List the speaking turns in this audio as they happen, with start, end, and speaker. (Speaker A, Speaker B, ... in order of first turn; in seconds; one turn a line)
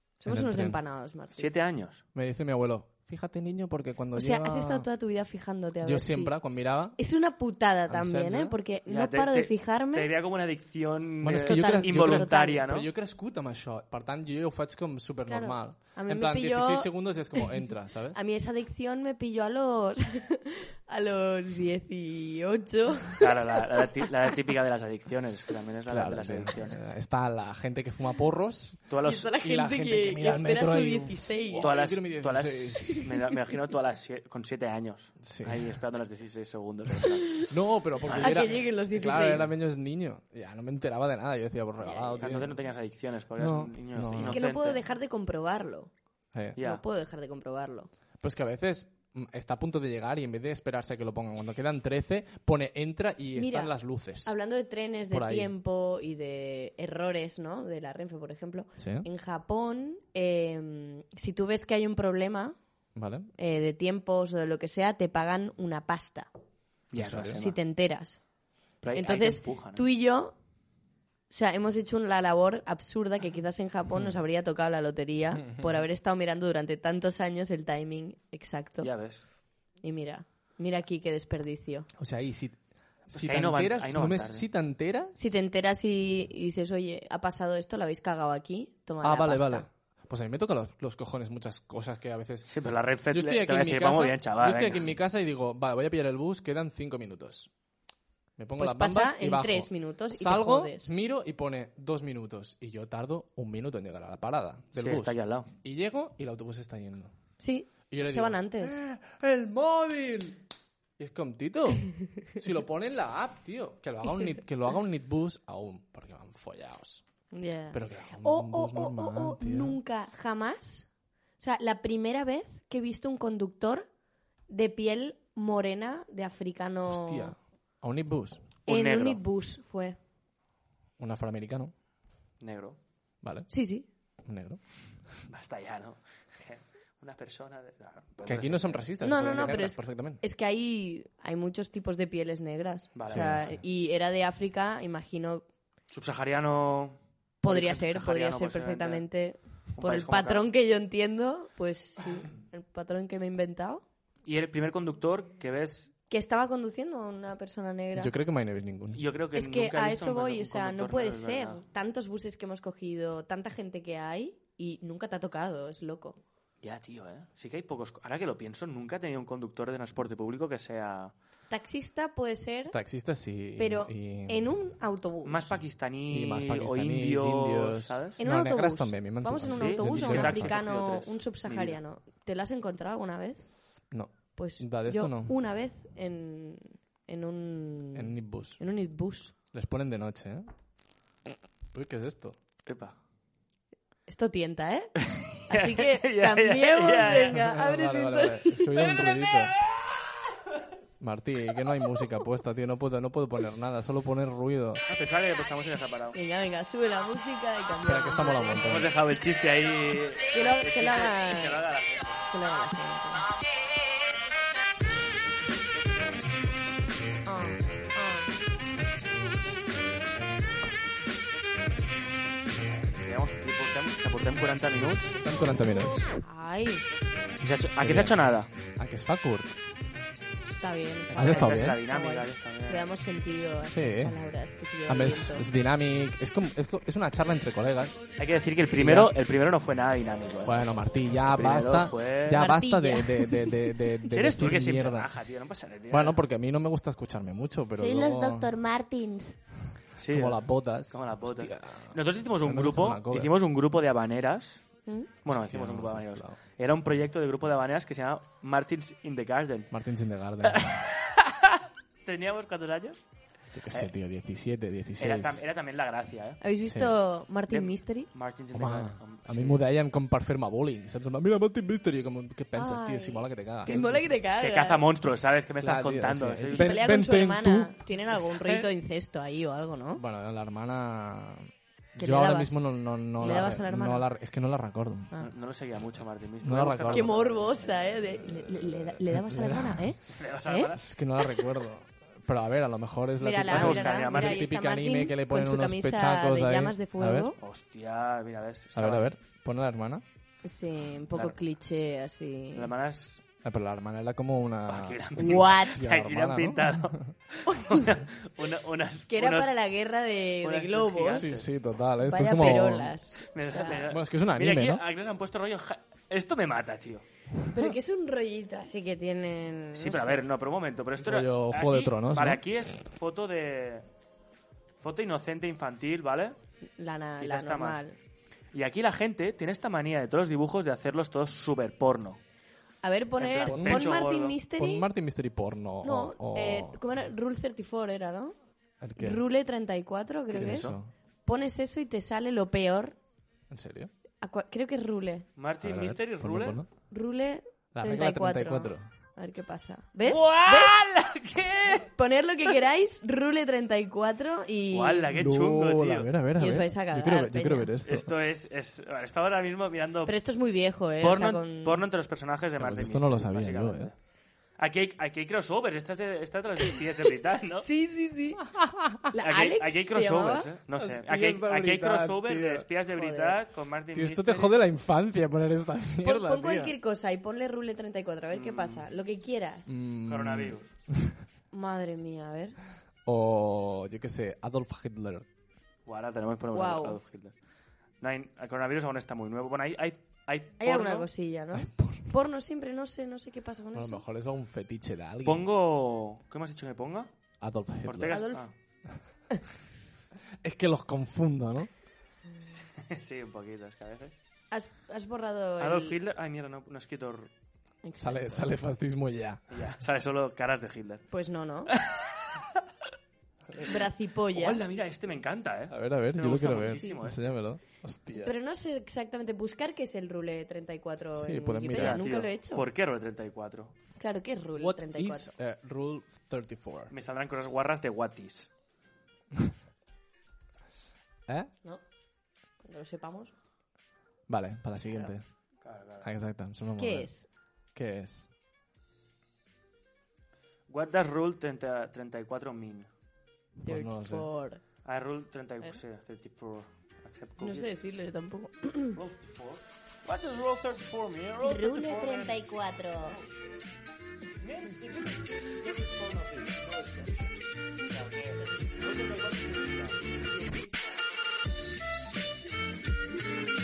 Speaker A: 0.2-1.5
Speaker B: 0.3-0.8
Speaker C: 1.4-2.0
Speaker B: 2.1-4.9
Speaker A: 4.1-6.3
Speaker B: 5.8-7.0
Speaker A: 7.0-10.1
Speaker B: 7.9-8.6
Speaker C: 8.9-12.9
Speaker B: 11.2-18.2
Speaker A: 11.4-12.6
Speaker A: 15.3-17.5
Speaker A: 18.1-24.0
Speaker C: 23.2-26.8
Speaker B: 25.9-33.0
Speaker C: 28.9-29.3
Speaker A: 29.0-31.8
Speaker C: 31.6-39.1
Speaker A: 32.9-33.3
Speaker B: 35.2-35.8
Speaker B: 37.5-42.7
Speaker A: 38.2-39.4
Speaker A: 41.9-42.2
Speaker C: 42.2-44.8
Speaker B: 43.4-44.4
Speaker A: 44.2-45.9
Speaker B: 46.3-46.6
Speaker C: 46.6-46.8
Speaker A: 46.6-47.9
Speaker B: 48.2-54.3
Speaker A: 53.4-62.6
Speaker B: 55.1-55.5
Speaker B: 58.8-59.1
Speaker B: 63.0-63.3
Speaker A: 63.4-66.3
Speaker C: 66.9-67.6
Speaker B: 67.0-67.5
Speaker A: 67.3-68.2
Speaker C: 68.8-69.8
Speaker A: 68.9-70.4
Speaker A: 71.3-78.9
Speaker B: 75.4-75.8
Speaker C: 78.8-79.2
Speaker A: 79.8-81.9
Speaker B: 82.0-85.2
Speaker C: 83.1-84.5
Speaker A: 85.2-89.7
Speaker B: 89.0-92.5
Speaker C: 92.5-94.9
Speaker B: 93.1-97.5
Speaker B: 98.4-107.1
Speaker A: 98.6-100.9
Speaker C: 104.8-105.5
Speaker A: 107.4-108.8
Speaker B: 107.9-110.4
Speaker B: 111.0-117.0
Speaker A: 117.3-123.9
Speaker B: 117.7-119.8
Speaker A: 124.5-127.3
Speaker B: 126.9-128.5
Speaker C: 128.7-129.2
Speaker A: 128.7-130.0
Speaker B: 131.0-131.7
Speaker C: 132.4-132.8
Speaker B: 133.2-133.5
Speaker A: 133.5-133.9
Speaker B: 134.2-134.6
Speaker C: 135.3-138.8
Speaker B: 138.3-140.2
Speaker A: 139.0-145.5
Speaker C: 142.9-143.5
Speaker B: 143.1-143.6
Speaker C: 145.9-149.1
Speaker A: 147.4-153.8
Speaker C: 149.7-150.5
Speaker C: 154.3-155.9
Speaker A: 156.1-158.1
Speaker B: 158.0-159.0
Speaker C: 158.9-161.6
Speaker A: 159.3-166.2
Speaker C: 166.6-171.1
Speaker A: 171.5-172.8
Speaker B: 172.7-174.5
Speaker A: 173.6-175.5
Speaker C: 175.2-178.2
Speaker B: 176.1-180.7
Speaker A: 178.2-183.5
Speaker C: 179.5-181.8
Speaker B: 183.9-185.4
Speaker A: 184.3-189.3
Speaker B: 187.9-188.6
Speaker B: 189.5-190.5
Speaker B: 191.7-192.4
Speaker C: 192.7-192.9
Speaker A: 194.1-199.3
Speaker C: 195.0-197.4
Speaker B: 197.3-199.5
Speaker B: 201.0-204.8
Speaker C: 204.9-206.2
Speaker A: 206.1-208.7
Speaker B: 207.8-208.9
Speaker C: 208.6-212.2
Speaker A: 210.3-211.6
Speaker A: 212.3-213.2
Speaker A: 217.3-218.3
Speaker C: 222.9-225.1
Speaker B: 225.1-226.1
Speaker A: 226.2-226.8
Speaker C: 227.4-228.5
Speaker B: 227.8-229.6
Speaker A: 230.5-235.4
Speaker C: 231.1-232.8
Speaker B: 231.1-231.8
Speaker B: 233.6-234.2
Speaker B: 234.9-238.0
Speaker C: 238.2-240.6
Speaker B: 238.8-239.1
Speaker B: 240.4-245.1
Speaker C: 241.3-242.5
Speaker A: 242.4-243.6
Speaker C: 244.1-246.2
Speaker B: 245.9-248.6
Speaker A: 247.8-249.4
Speaker C: 250.0-254.6
Speaker B: 250.1-253.3
Speaker C: 255.2-259.7
Speaker B: 255.3-256.4
Speaker B: 259.7-260.9
Speaker C: 260.4-263.0
Speaker B: 263.5-265.4
Speaker C: 265.0-266.4
Speaker A: 266.4-268.1
Speaker B: 266.6-266.9
Speaker C: 267.5-269.6
Speaker B: 268.5-273.9
Speaker A: 272.6-274.8
Speaker C: 273.7-276.9
Speaker B: 275.6-277.7
Speaker A: 276.5-280.0
Speaker C: 278.1-278.7
Speaker B: 279.9-285.1
Speaker A: 282.0-282.6
Speaker A: 283.2-284.1
Speaker C: 285.2-287.9
Speaker B: 286.4-287.1
Speaker A: 286.9-291.4
Speaker B: 288.2-289.9
Speaker C: 290.1-290.8
Speaker B: 290.8-297.3
Speaker A: 293.2-297.4
Speaker C: 293.5-294.5
Speaker C: 297.4-299.1
Speaker B: 298.8-300.0
Speaker A: 300.4-302.7
Speaker C: 302.6-303.2
Speaker B: 303.4-307.1
Speaker C: 304.7-309.6
Speaker A: 305.1-305.8
Speaker A: 307.5-307.9
Speaker A: 309.1-311.3
Speaker C: 310.4-311.6
Speaker B: 311.1-313.0
Speaker A: 312.0-313.9
Speaker C: 313.3-317.0
Speaker B: 313.8-314.8
Speaker A: 317.5-320.2
Speaker C: 319.8-323.9
Speaker B: 321.0-322.8
Speaker C: 324.8-326.4
Speaker A: 326.8-328.0
Speaker C: 327.2-327.8
Speaker C: 328.5-332.2
Speaker A: 332.8-334.9
Speaker C: 333.2-334.4
Speaker B: 333.5-334.0
Speaker B: 334.6-336.8
Speaker A: 335.8-338.4
Speaker B: 338.8-339.2
Speaker A: 339.0-343.0
Speaker C: 340.3-340.8
Speaker B: 340.4-340.9
Speaker B: 343.5-343.9
Speaker A: 344.2-345.3
Speaker C: 345.4-346.6
Speaker B: 345.6-346.7
Speaker A: 346.9-350.8
Speaker B: 347.7-348.9
Speaker C: 350.1-351.9
Speaker A: 351.9-355.1
Speaker C: 354.7-356.1
Speaker B: 355.1-358.1
Speaker A: 356.4-357.7
Speaker C: 357.8-360.2
Speaker A: 360.1-361.8
Speaker C: 361.0-363.9
Speaker B: 362.6-363.9
Speaker C: 364.6-367.7
Speaker A: 367.6-368.4
Speaker B: 368.5-369.1
Speaker A: 369.1-370.5
Speaker C: 369.2-374.6
Speaker B: 370.8-372.7
Speaker A: 372.9-373.4
Speaker B: 373.9-376.7
Speaker A: 376.0-379.7
Speaker C: 378.3-378.9
Speaker B: 379.7-381.2
Speaker C: 380.1-380.7
Speaker A: 381.5-382.6
Speaker B: 383.1-385.3
Speaker C: 385.9-387.3
Speaker A: 386.5-387.0
Speaker C: 388.0-391.1
Speaker A: 390.6-394.0
Speaker B: 391.6-392.1
Speaker B: 393.7-395.5
Speaker C: 395.2-397.1
Speaker B: 397.4-398.2
Speaker C: 397.9-398.5
Speaker A: 398.1-398.5
Speaker B: 400.4-401.7
Speaker C: 402.4-404.1
Speaker A: 404.5-406.0
Speaker C: 405.6-407.3
Speaker A: 407.8-408.4
Speaker B: 407.9-409.4
Speaker C: 409.5-411.1
Speaker A: 411.1-411.7
Speaker C: 411.7-412.6
Speaker C: 413.6-417.2
Speaker A: 413.6-414.6
Speaker B: 415.7-418.3
Speaker A: 416.7-417.0
Speaker A: 418.2-422.7
Speaker B: 421.2-422.1
Speaker C: 421.7-423.7
Speaker A: 424.0-425.3
Speaker B: 424.6-426.9
Speaker C: 426.9-428.5
Speaker A: 432.6-433.3
Speaker B: 434.3-435.3
Speaker C: 435.6-436.1
Speaker B: 436.0-437.1
Speaker A: 436.8-437.3
Speaker B: 437.7-438.3
Speaker C: 440.7-442.9
Speaker B: 443.6-444.3
Speaker A: 443.6-444.6
Speaker C: 444.9-447.8
Speaker A: 447.4-449.0
Speaker C: 448.9-453.5
Speaker A: 451.4-453.2
Speaker C: 454.4-461.0